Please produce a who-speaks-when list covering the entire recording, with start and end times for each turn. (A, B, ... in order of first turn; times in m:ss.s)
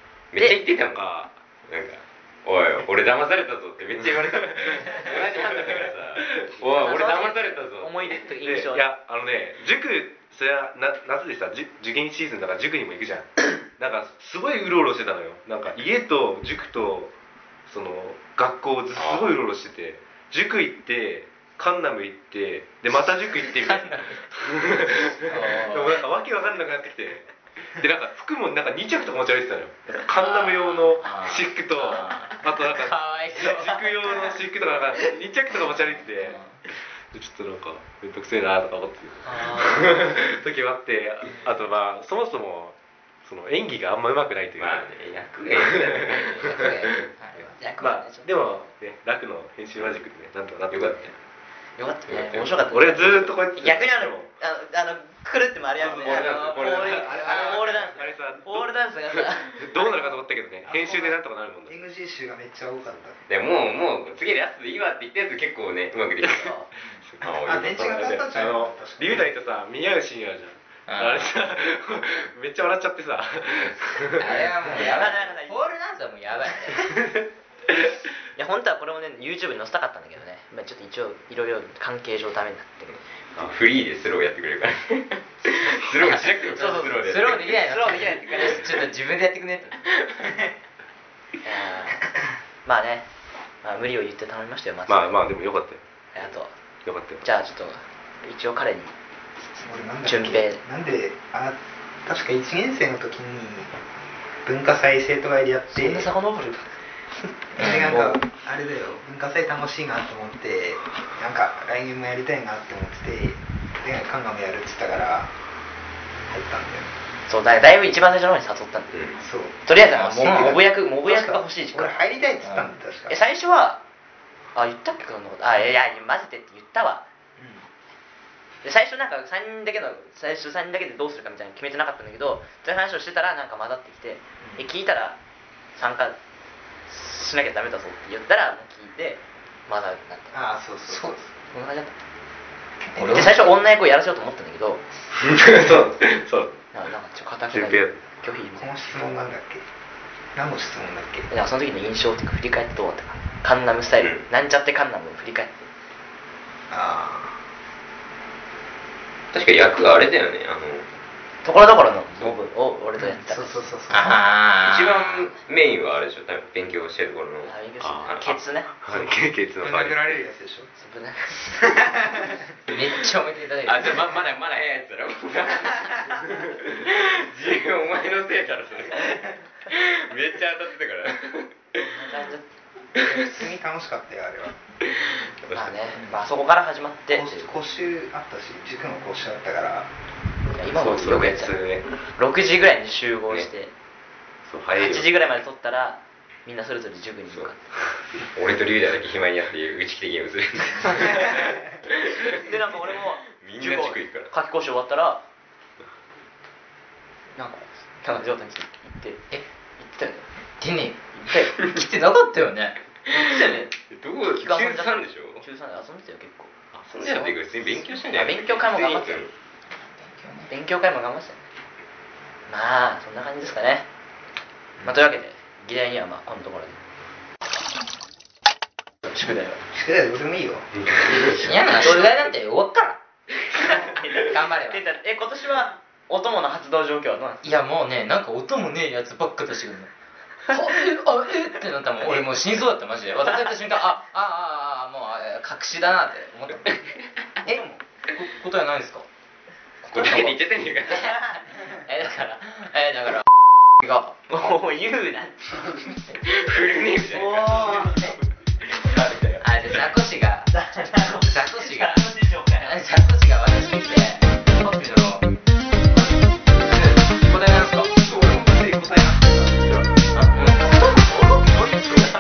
0:00.3-0:08.3 A
0:00.4-0:00.6 B
0:00.9-0:01.3 C
0:04.4-0:06.6 C
0:06.7-0:08.9 B
0:08.4-0:17.1 C
0:17.7-0:36.4 C
0:18.9-0:19.3 A
0:23.4-0:24.2 D
0:25.2-0:26.0 D
0:30.1-0:34.4 D
0:35.6-0:36.6 D
0:37.1-0:44.9 C
0:39.2-0:40.0 D
0:44.6-0:46.7 A
0:45.5-0:47.1 C
0:46.4-0:47.6 D
0:47.6-0:48.3 B
0:47.8-0:51.1 C
0:50.7-0:51.1 A
0:51.8-1:00.0 B
0:52.2-0:54.3 C
0:55.8-1:01.8 C
0:55.8-0:57.3 A
0:57.3-0:57.6 D
1:00.6-1:03.2 E
1:03.3-1:06.6 A
1:06.4-1:06.7 B
1:06.8-1:09.3 E
1:07.0-1:14.5 C
1:07.2-1:08.2 A
1:10.9-1:11.3 D
1:14.2-1:17.0 D
1:14.7-1:15.6 B
1:18.4-1:23.0 B
1:23.4-1:27.6 A
1:26.0-1:28.8 B
1:26.8-1:29.8 D
1:31.4-1:32.0 B
1:32.6-1:33.1 B
1:33.6-1:35.2 B
1:34.9-1:35.8 C
1:36.1-1:36.5 B
1:36.8-1:37.2 C
1:37.2-1:38.9 B
1:39.6-1:43.7 E
1:40.0-1:40.6 B
1:44.4-1:46.1 E
1:45.7-1:46.7 B
1:47.2-1:48.2 B
1:47.6-1:55.3 E
1:47.6-1:48.1 D
1:56.3-1:56.9 E
1:57.3-1:59.0 B
1:58.9-1:59.2 A
1:59.2-2:03.2 E
1:59.6-2:02.0 B
2:00.1-2:00.6 D
2:02.4-2:02.7 D
2:03.1-2:03.8 B
2:04.6-2:07.0 B
2:07.4-2:07.6 E
2:08.6-2:15.2 B
2:15.8-2:16.2 B
2:16.9-2:20.4 B
2:20.3-2:21.3 E
2:20.9-2:21.2 D
2:21.5-2:22.0 B
2:22.9-2:23.5 D
2:23.1-2:24.8 B
2:25.2-2:26.6 C
2:26.7-2:29.0 B
2:27.5-2:28.0 C
2:28.6-2:29.6 E
2:30.4-2:31.3 E
2:31.3-2:35.7 B
2:36.7-2:37.3 E
2:39.3-2:40.8 A
2:41.4-2:43.7 B
2:43.2-2:44.3 E
2:43.9-2:45.3 D
2:44.6-2:48.3 A
2:47.4-2:48.7 B
2:48.8-2:50.1 C
2:49.6-2:50.7 E
2:50.8-2:51.6 B
2:51.6-2:52.4 E
2:52.7-2:54.1 D
2:53.7-3:01.9 A
3:01.9-3:02.4 B
3:03.0-3:04.6 E
3:05.5-3:07.6 B
3:07.1-3:09.9 E
3:10.5-3:13.7 B
3:10.6-3:11.9 C
3:14.5-3:15.1 C
3:14.8-3:17.6 B
3:18.2-3:22.4 A
3:22.3-3:25.2 B
3:23.4-3:24.3 A
3:27.4-3:29.3 B
3:29.8-3:30.3 B
3:30.6-3:31.0 D
3:31.2-3:31.6 B
3:31.6-3:32.8 D
3:33.1-3:37.3 B
3:33.9-3:35.4 A
3:36.8-3:39.3 A
3:38.1-3:39.3 B
3:39.8-3:40.5 D
3:40.5-3:41.4 B
3:42.5-3:43.9 B
3:44.8-3:45.0 E
3:44.8-3:46.8 B
3:49.0-3:49.6 B
3:49.7-3:50.8 E
3:51.4-3:53.0 D
3:51.8-3:52.1 B
3:53.5-3:57.5 B
3:53.8-3:54.8 D
3:57.4-3:59.9 D
4:00.5-4:09.0 D
4:09.8-4:13.3 D
4:09.9-4:11.2 A
4:13.8-4:14.1 D
4:14.3-4:15.8 B
4:16.2-4:18.1 A
4:17.1-4:18.2 B
4:19.4-4:20.5 D
4:20.5-4:22.8 B
4:21.2-4:22.1 D
4:22.6-4:25.3 D
4:25.9-4:28.1 D
4:28.3-4:29.6 E
4:30.1-4:31.5 D